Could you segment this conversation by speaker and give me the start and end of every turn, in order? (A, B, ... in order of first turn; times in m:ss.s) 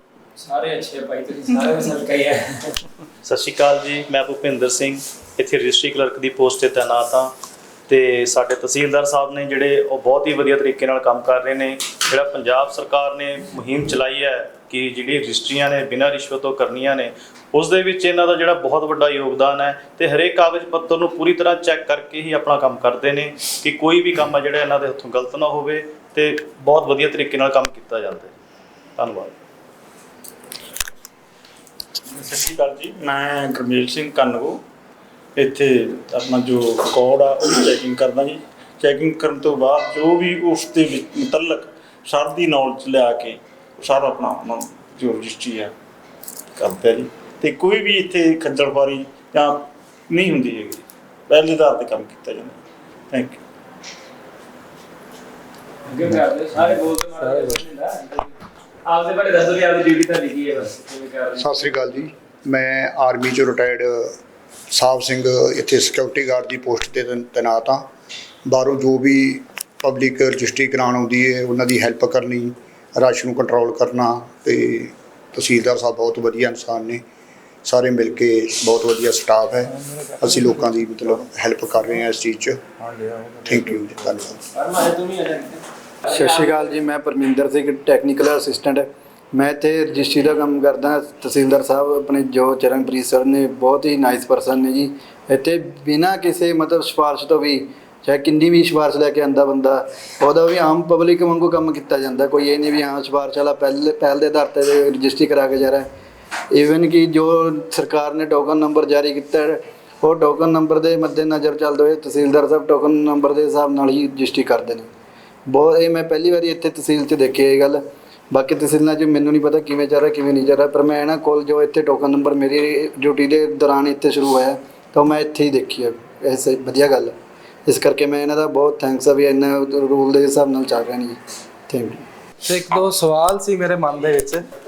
0:00.4-0:02.7 A
0:03.2-0:07.3 B
0:07.9-0:28.3 B
0:29.0-0:29.3 B
0:32.1-0:34.6 C
0:35.4-0:45.7 C
0:46.6-0:52.6 C
0:53.1-0:53.4 C
0:55.9-0:58.3 A
0:58.9-1:01.5 A
1:01.4-1:04.2 D
1:04.7-1:07.8 D
1:08.4-1:17.0 D
1:17.6-1:22.6 D
1:22.8-1:24.2 E
1:23.4-1:24.4 D
1:24.5-1:26.7 A
1:26.1-1:45.9 E
1:46.5-1:54.9 E
1:55.5-2:07.1 E
2:07.6-2:12.0 E
2:12.4-2:14.4 F